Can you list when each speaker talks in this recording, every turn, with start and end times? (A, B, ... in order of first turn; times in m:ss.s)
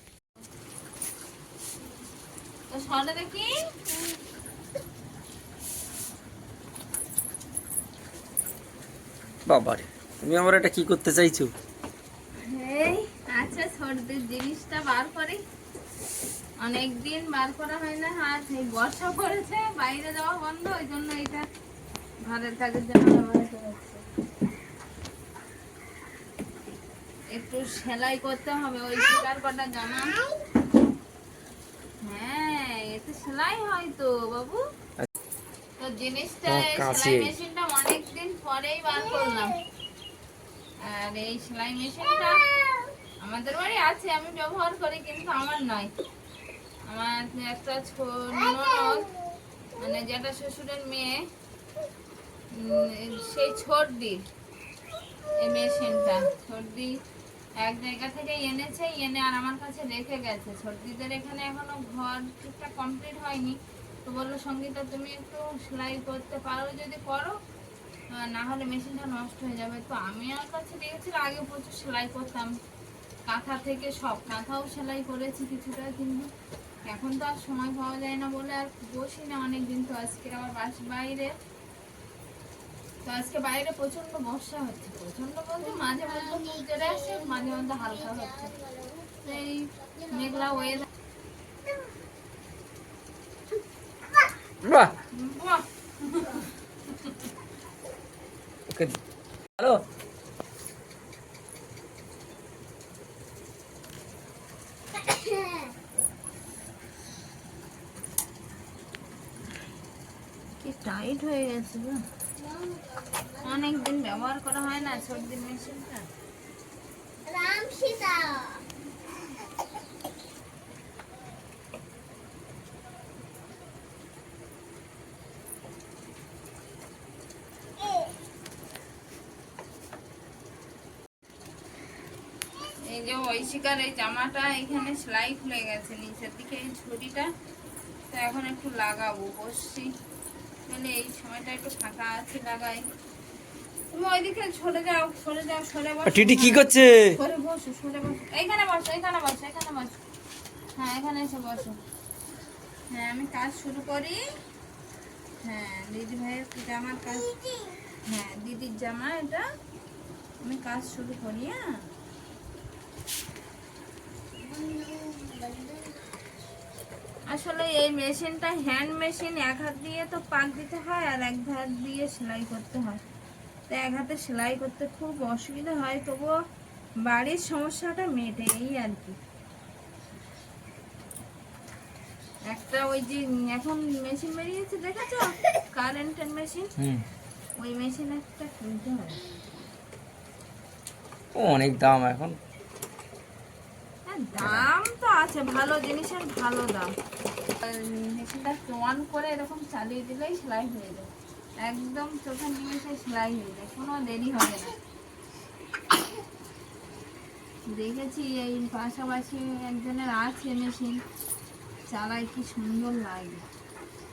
0:02.7-0:03.6 A
0:09.5-0:11.5 B
0:12.4-0:15.4 A
0:16.6-0:21.5 A
0:22.3-0:24.0 A
0:27.3-0:30.2 A
0:32.0-0:34.6 A
0:35.8-0:39.6 A
0:36.5-0:37.3 B
0:39.0-0:39.5 C
0:40.8-0:42.4 A
0:42.0-0:42.9 C
0:43.2-0:45.9 A
0:46.9-0:49.1 A
0:48.3-0:49.2 C
0:49.8-0:51.2 A
0:52.5-0:54.2 A
0:55.4-0:56.9 A
0:57.6-1:07.4 A
1:08.1-1:12.5 A
1:13.3-1:16.3 A
1:16.9-1:21.3 A
1:23.0-1:28.5 A
1:25.6-1:30.8 C
1:29.2-1:30.9 A
1:34.6-1:35.0 B
1:35.1-1:36.5 A
1:38.7-1:39.0 B
1:39.6-1:39.8 B
1:44.9-1:45.8 C
1:50.6-1:52.0 A
1:52.4-1:55.3 C
1:53.4-1:56.0 A
1:57.3-1:58.6 C
2:07.8-2:08.1 C
2:12.9-2:17.3 A
2:18.1-2:19.9 A
2:20.7-2:22.8 A
2:23.9-2:30.0 A
2:26.1-2:27.2 B
2:30.8-2:31.8 A
2:32.9-2:34.2 A
2:35.4-2:37.3 A
2:37.2-2:37.8 C
2:38.1-2:39.4 A
2:40.4-2:41.6 A
2:44.4-2:46.1 C
2:47.3-2:53.0 A
2:53.7-2:56.3 A
2:57.0-2:59.2 A
3:02.5-3:06.7 A
3:06.8-3:07.1 B
3:07.6-3:09.2 A
3:11.4-3:12.4 B
3:14.1-3:16.9 A
3:14.4-3:14.7 B
3:17.6-3:21.1 A
3:21.6-3:24.7 A
3:27.7-3:31.0 A
3:31.9-3:33.4 A